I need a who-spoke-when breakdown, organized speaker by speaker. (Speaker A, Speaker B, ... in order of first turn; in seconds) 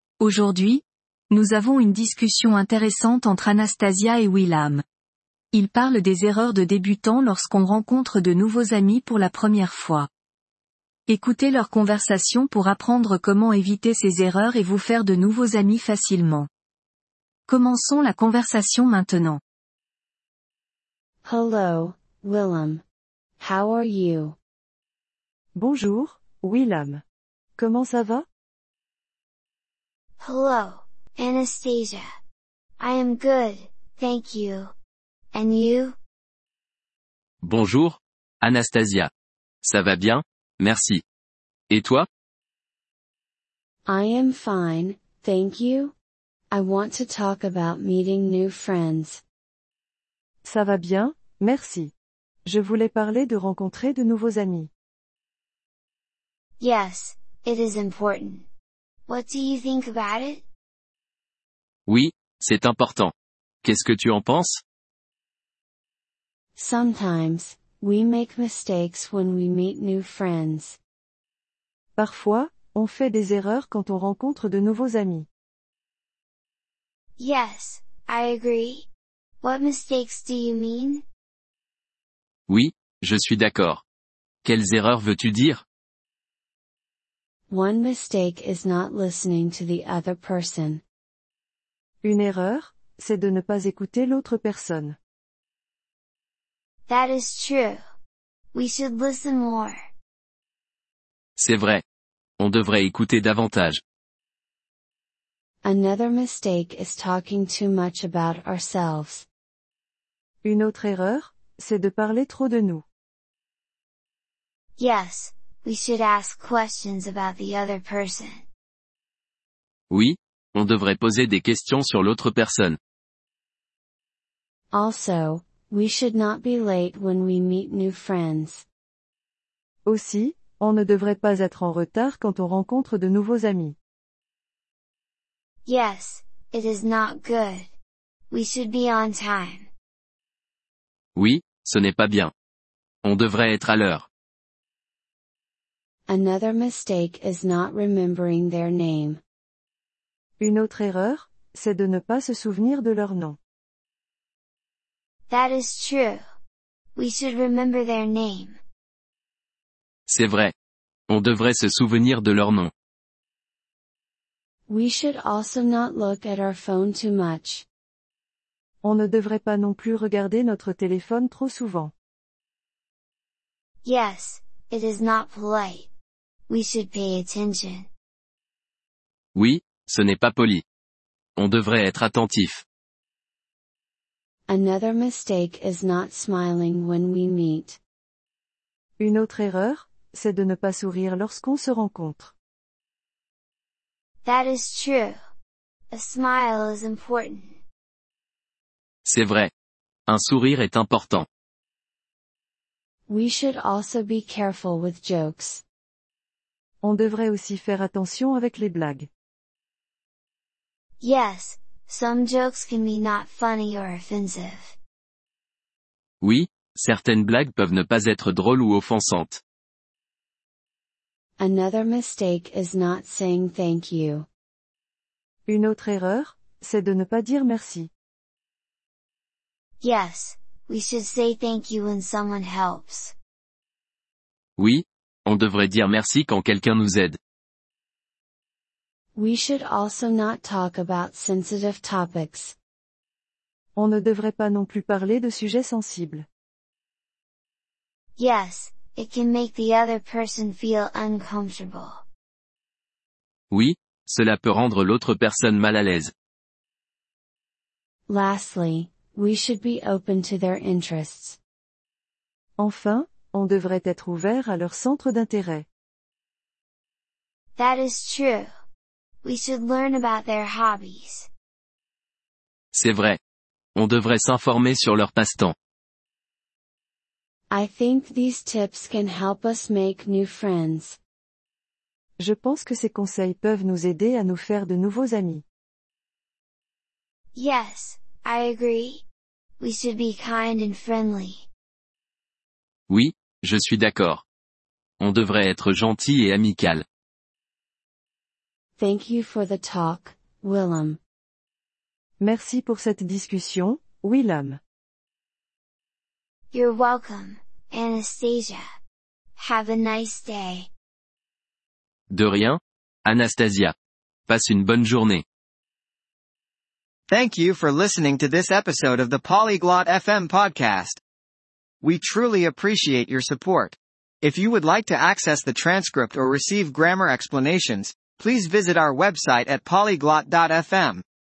Speaker A: 0.2-4.8, 5.5-10.1, 11.1-16.5, 17.5-19.4
Speaker B: 21.2-22.8, 23.4-24.4, 43.9-46.0, 46.5-49.2, 66.6-70.8, 87.5-90.8, 105.6-109.3, 124.7-128.7, 146.1-149.2, 164.7-167.7, 184.5-187.8, 203.1-205.6, 221.4-224.3, 239.2-242.6, 258.1-261.4, 277.5-281.0, 298.8-301.0
Speaker C: 25.6-27.0, 27.6-28.3, 50.4-51.9, 52.5-54.7, 72.0-75.3, 92.0-95.0, 110.4-112.8, 129.9-133.8, 150.4-153.4, 168.8-171.9, 189.0-192.3, 206.8-209.1, 225.5-227.9, 243.8-246.3, 262.6-265.7, 282.2-285.4, 302.2-304.6
Speaker D: 30.2-32.0, 32.8-34.7, 35.3-36.0, 56.6-58.5, 59.1-60.4, 77.2-78.9, 79.4-81.0, 96.9-97.8, 98.5-99.8, 114.8-118.4, 135.7-137.7, 138.3-139.7, 155.3-156.2, 157.0-158.6, 173.8-175.9, 176.5-177.9, 194.2-195.2, 195.9-197.6, 211.0-214.8, 229.8-233.2, 248.2-252.0, 267.6-268.5, 269.2-271.3, 287.4-289.0, 289.6-291.5, 306.5-308.6, 309.4-310.7
Speaker E: 37.4-39.1, 39.6-41.0, 41.7-42.1, 61.9-63.1, 63.6-64.6, 82.5-83.8, 84.5-85.6, 101.4-101.8, 102.4-103.8, 119.9-122.8, 141.2-142.3, 143.0-144.1, 160.1-160.5, 161.1-162.7, 179.3-180.6, 181.4-182.7, 199.1-199.5, 200.1-201.3, 216.2-219.4, 234.6-237.2, 253.5-256.1, 272.7-273.2, 273.8-275.6, 292.9-294.2, 295.0-296.9, 312.1-313.7, 314.3-315.2
Speaker F: 317.1-321.0, 321.8-331.0